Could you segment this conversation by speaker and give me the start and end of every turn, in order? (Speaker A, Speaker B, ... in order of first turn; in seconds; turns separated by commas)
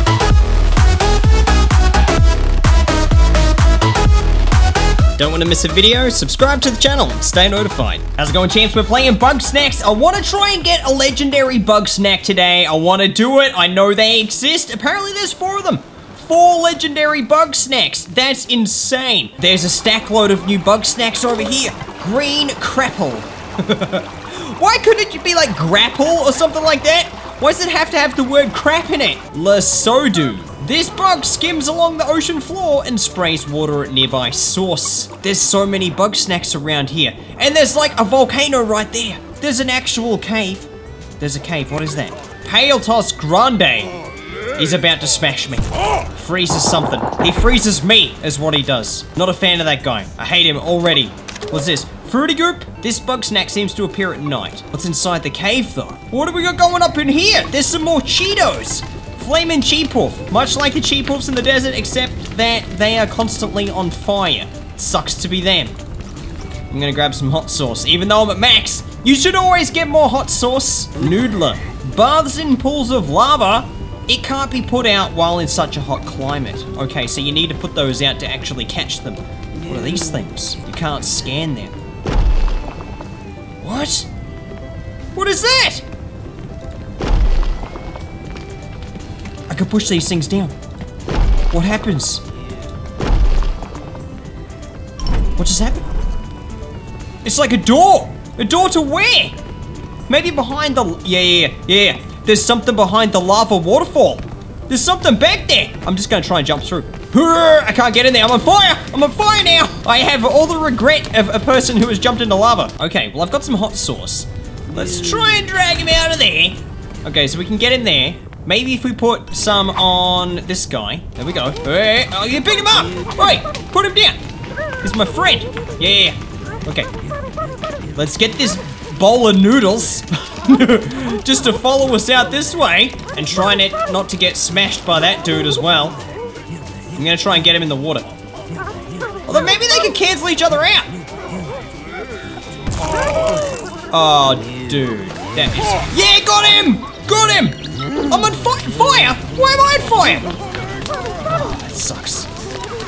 Speaker A: 5.2-40.7, Speaker A: 41.2-43.9, Speaker A: 44.5-65.8, Speaker A: 66.7-81.7, Speaker A: 83.6-84.1, Speaker A: 85.1-85.8, Speaker A: 89.5-90.5, Speaker A: 91.5-92.2, Speaker A: 95.4-95.8, Speaker A: 97.2-99.4, Speaker A: 100.1-124.2, Speaker A: 124.8-126.9, Speaker A: 127.9-136.0, Speaker A: 136.9-138.2, Speaker A: 139.3-140.9, Speaker A: 143.9-150.3, Speaker A: 151.2-152.3